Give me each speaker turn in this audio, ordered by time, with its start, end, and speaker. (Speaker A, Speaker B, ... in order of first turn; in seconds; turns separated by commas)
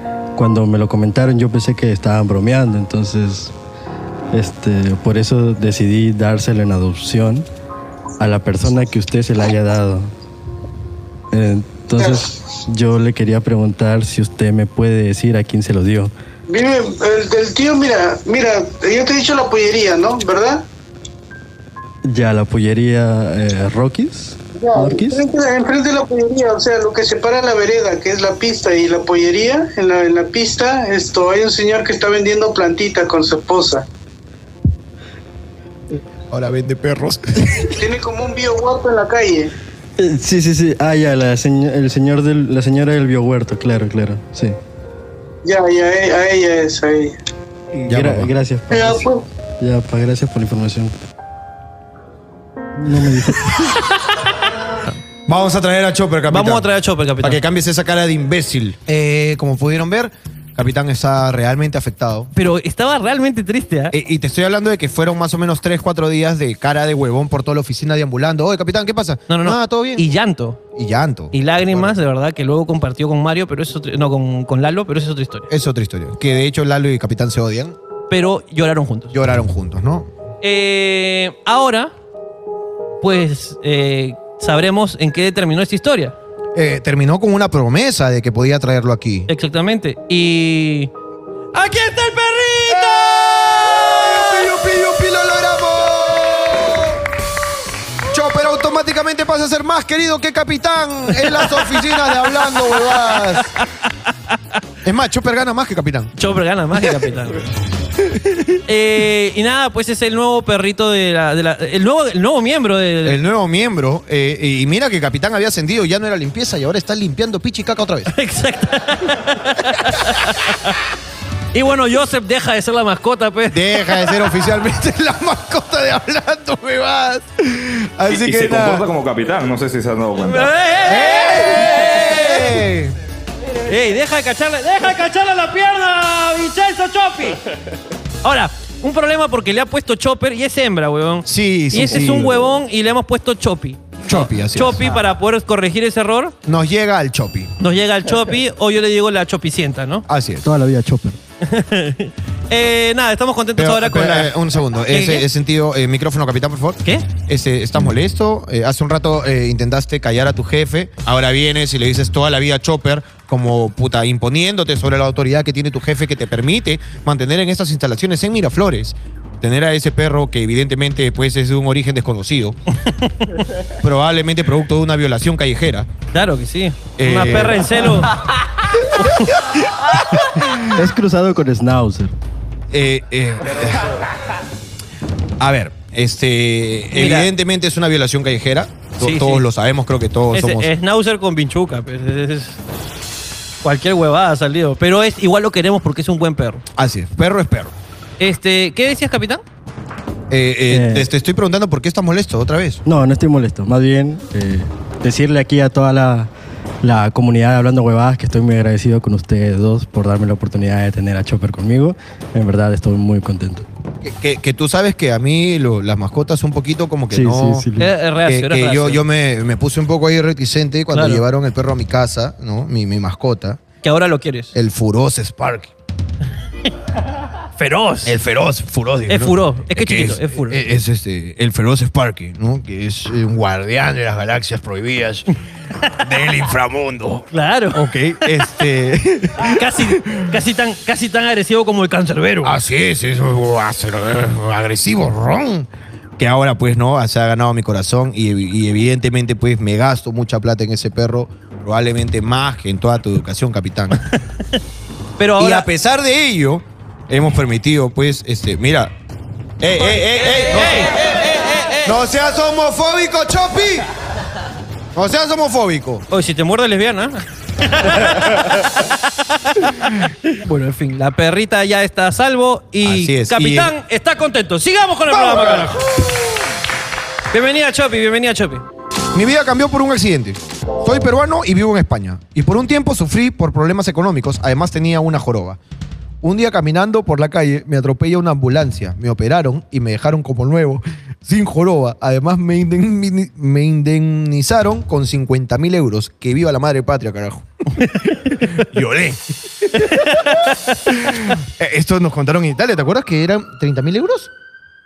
Speaker A: 0.4-3.5, Speaker A: 4.3-7.5, Speaker A: 8.2-10.1, Speaker A: 11.3-16.1, Speaker B: 12.0-12.3, Speaker B: 16.5-20.6, Speaker A: 22.1-25.2, Speaker B: 24.6-33.8, Speaker C: 36.3-37.7, Speaker B: 37.8-39.5, Speaker A: 40.0-44.5, Speaker B: 45.4-47.1, Speaker C: 47.7-48.3, Speaker A: 47.9-49.0, Speaker B: 48.7-49.2, Speaker A: 49.6-50.9, Speaker A: 52.8-53.7, Speaker C: 55.3-56.7, Speaker D: 56.3-57.4, Speaker C: 57.2-62.3, Speaker D: 62.3-63.9, Speaker C: 63.9-70.0, Speaker D: 69.3-70.6, Speaker C: 70.7-72.0, Speaker D: 71.3-75.5, Speaker C: 75.5-77.8, Speaker D: 78.1-79.1, Speaker C: 79.1-80.1, Speaker D: 80.4-81.9, Speaker D: 83.0-86.2, Speaker C: 86.5-89.3, Speaker D: 89.3-90.9, Speaker D: 91.5-94.4, Speaker C: 92.7-97.0, Speaker C: 98.1-103.5, Speaker D: 101.2-104.1, Speaker C: 104.8-106.1, Speaker D: 106.2-107.4, Speaker D: 108.7-113.2, Speaker C: 113.0-118.1, Speaker D: 118.1-120.8, Speaker D: 121.5-124.2, Speaker C: 123.5-128.9, Speaker E: 128.1-130.5, Speaker D: 130.2-132.6, Speaker C: 130.8-132.9, Speaker D: 133.7-137.4, Speaker D: 138.2-146.3, Speaker C: 141.2-142.5, Speaker C: 144.1-145.0, Speaker C: 146.4-147.5, Speaker D: 147.6-150.1, Speaker C: 150.1-150.5, Speaker A: 150.4-151.2, Speaker D: 151.4-155.3, Speaker C: 153.6-172.6, Speaker C: 173.8-175.9, Speaker D: 176.1-178.1, Speaker C: 177.0-177.8, Speaker D: 178.9-179.4, Speaker C: 179.3-180.5, Speaker A: 180.6-182.1, Speaker C: 182.7-184.0, Speaker C: 185.4-190.7, Speaker D: 186.9-187.3, Speaker D: 189.0-189.4, Speaker D: 190.3-192.6, Speaker D: 193.6-196.6, Speaker C: 196.8-197.7, Speaker D: 198.2-199.4, Speaker C: 200.3-202.8, Speaker A: 200.7-201.1, Speaker A: 202.8-206.3, Speaker A: 206.8-213.6, Speaker C: 214.0-217.7, Speaker A: 217.1-217.9, Speaker D: 217.8-219.0, Speaker C: 218.3-223.6, Speaker D: 220.9-221.2, Speaker D: 223.8-224.6, Speaker C: 224.5-225.7, Speaker D: 227.6-228.2, Speaker C: 228.1-235.3, Speaker D: 229.1-230.6, Speaker C: 235.8-240.3, Speaker D: 237.3-237.9, Speaker D: 239.4-242.6, Speaker C: 242.4-254.1, Speaker D: 255.2-255.7, Speaker C: 255.4-258.9, Speaker C: 259.6-261.3, Speaker D: 260.0-261.9, Speaker C: 261.8-263.9, Speaker C: 264.9-266.1, Speaker D: 266.1-275.8, Speaker C: 268.1-268.5, Speaker C: 272.8-273.7, Speaker C: 275.1-276.3, Speaker D: 277.3-278.6, Speaker C: 279.1-285.6, Speaker C: 286.2-300.3, Speaker D: 299.8-300.7, Speaker C: 300.9-304.3